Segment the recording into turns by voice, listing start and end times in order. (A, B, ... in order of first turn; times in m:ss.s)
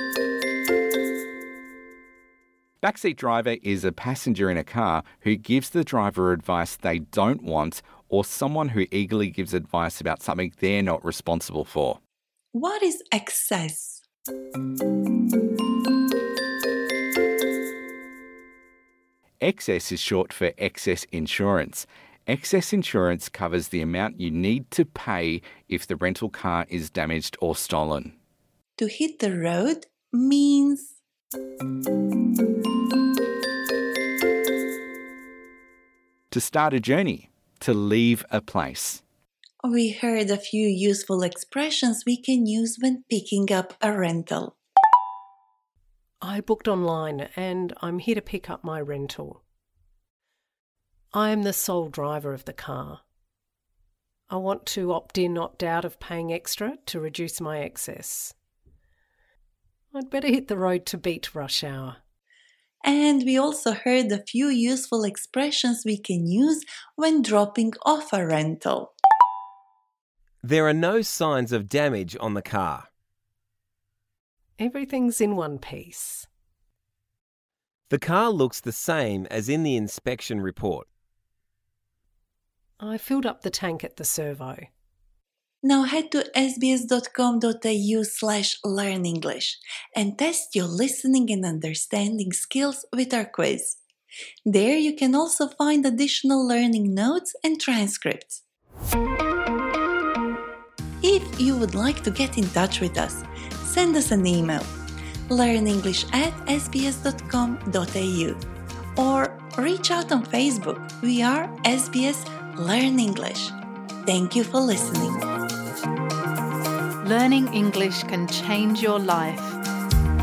0:02.8-0:12.0 A
0:12.5-0:14.0 B
0:19.4-0:28.1 A
0:28.8-0:31.0 B
0:36.3-0:39.0 A
0:39.6-0:44.6 B
0:46.2-0:49.4 C
0:51.1-0:53.0 C
0:54.3-0:58.3 C
0:59.9-1:02.0 C
1:02.8-1:08.9 B
1:10.4-1:12.9 D
1:14.6-1:16.3 C
1:17.9-1:20.9 D
1:22.8-1:24.7 C
1:25.6-1:33.8 B
1:34.5-1:38.4 B
1:41.0-1:44.7 B
1:45.3-1:48.4 B
1:49.0-1:55.3 B
1:57.0-1:59.6 E